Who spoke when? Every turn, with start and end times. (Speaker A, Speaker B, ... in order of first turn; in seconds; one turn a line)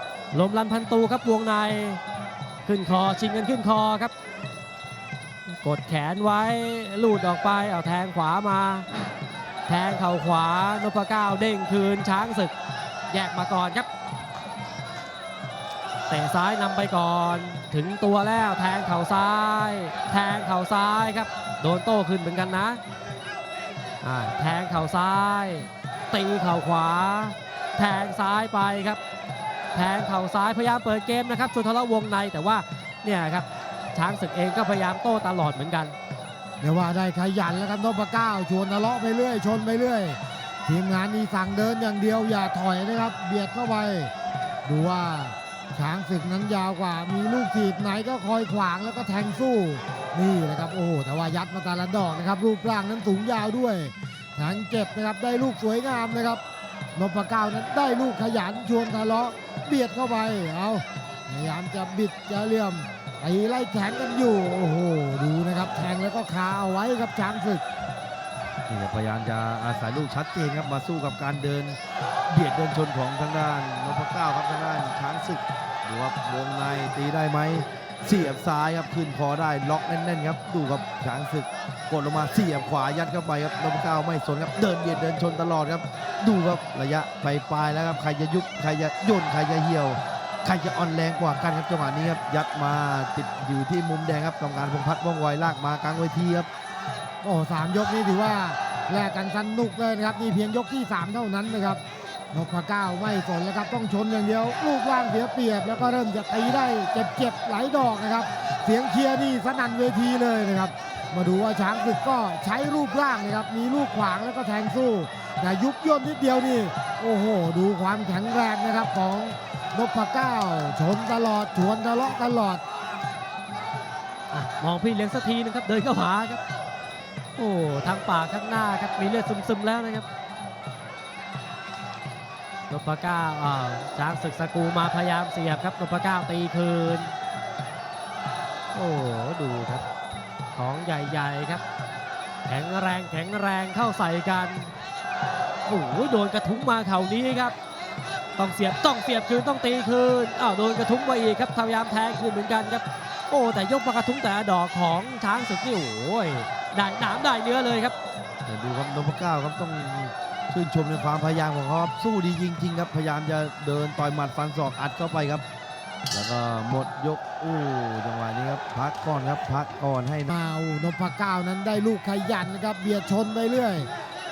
Speaker A: 0.3-2.0
Speaker A: 2.6-4.1
Speaker A: 5.5-8.9
Speaker A: 9.7-12.5
Speaker A: 13.1-13.9
Speaker A: 16.1-22.8
Speaker A: 24.0-29.0
Speaker A: 29.7-36.0
Speaker B: 36.6-44.1
Speaker B: 44.6-56.4
Speaker B: 57.0-67.6
Speaker C: 68.7-71.8
Speaker C: 72.3-96.5
Speaker B: 97.2-101.8
Speaker B: 102.3-122.6
Speaker A: 124.3-126.4
Speaker A: 127.4-130.1
Speaker A: 132.7-137.1
Speaker A: 138.7-139.8
Speaker A: 140.5-141.6
Speaker A: 142.4-144.7
Speaker A: 145.7-147.5
Speaker A: 148.3-157.9
Speaker C: 158.4-165.4
Speaker C: 166.1-170.3
Speaker B: 170.3-173.9